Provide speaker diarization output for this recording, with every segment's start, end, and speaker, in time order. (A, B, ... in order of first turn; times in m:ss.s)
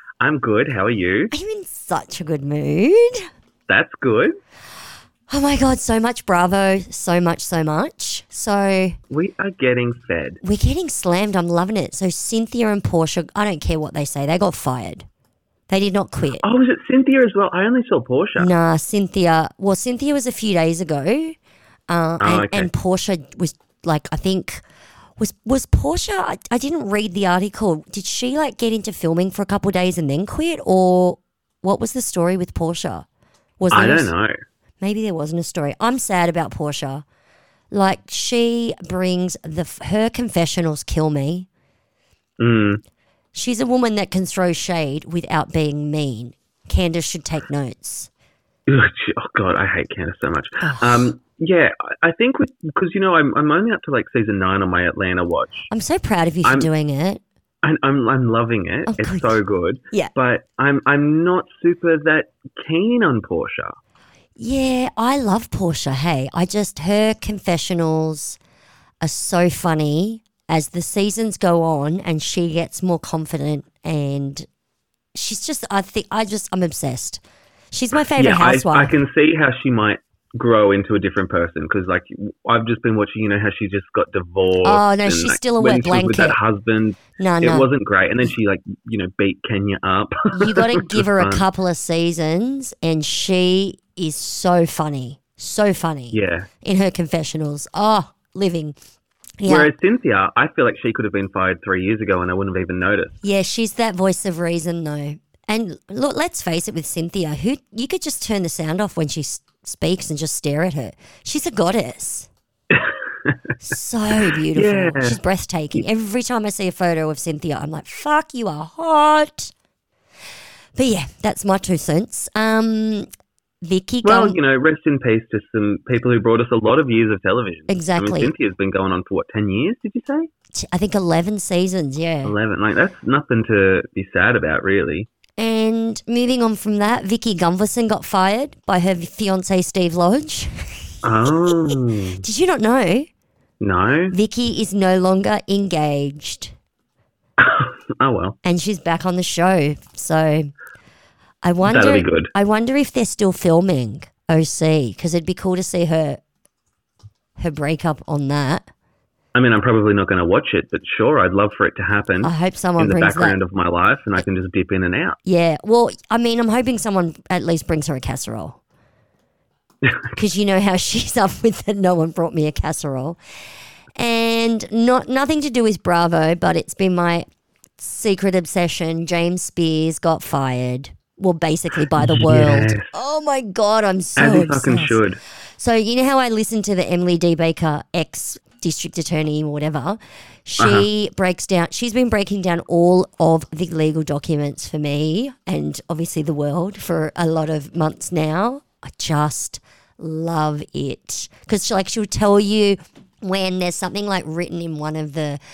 0:00.2-0:01.3 A
0:01.3-0:03.2 B
0:03.7-0:04.4 A
0:05.3-0:09.0 B
0:09.1-0:10.4 A
0:10.4-0:15.0 B
0:15.7-0:16.4 B
0:16.4-0:18.5 A
0:18.4-0:21.4 B
0:21.9-0:24.6 B
0:22.2-0:22.7 A
0:25.2-0:33.0 B
0:33.6-0:34.1 B
0:33.7-0:34.4 A
0:34.8-0:37.0 B
0:37.7-0:41.5 B
0:42.4-0:42.8 A
0:43.3-0:48.1 B
0:48.7-0:55.7 A
0:50.6-0:51.1 B
0:55.7-0:57.2 B
0:56.4-0:56.7 A
0:57.6-1:03.8 A
0:58.9-0:59.4 B
1:04.4-1:08.4 B
1:09.0-1:14.5 B
1:15.1-1:18.9 B
1:18.1-1:31.4 A
1:24.6-1:26.4 B
1:27.2-1:27.7 B
1:30.4-1:38.8 B
1:36.1-1:36.5 A
1:39.4-1:39.7 B
1:39.4-1:43.2 A
1:43.2-1:52.3 B
1:52.7-1:53.4 A
1:53.6-1:59.5 B
1:54.3-1:55.2 A
2:00.8-2:03.1 B
2:03.6-2:04.4 B
2:04.0-2:10.3 A
2:07.7-2:08.3 B
2:10.5-2:12.3 B
2:12.2-2:15.1 A
2:15.4-2:23.1 B
2:21.0-2:22.2 A
2:23.6-2:24.1 A
2:24.1-2:26.5 B
2:27.4-2:28.4 A
2:28.4-2:30.5 B
2:31.4-2:36.2 B
2:31.6-2:32.3 A
2:37.4-2:38.7 B
2:39.3-2:45.2 A
2:42.2-2:43.4 B
2:45.2-2:48.6 B
2:50.1-2:53.2 B
2:54.0-2:57.2 B
2:57.8-3:05.0 B
3:02.0-3:02.9 A
3:04.2-3:05.2 A
3:05.6-3:25.4 B
3:10.6-3:10.9 A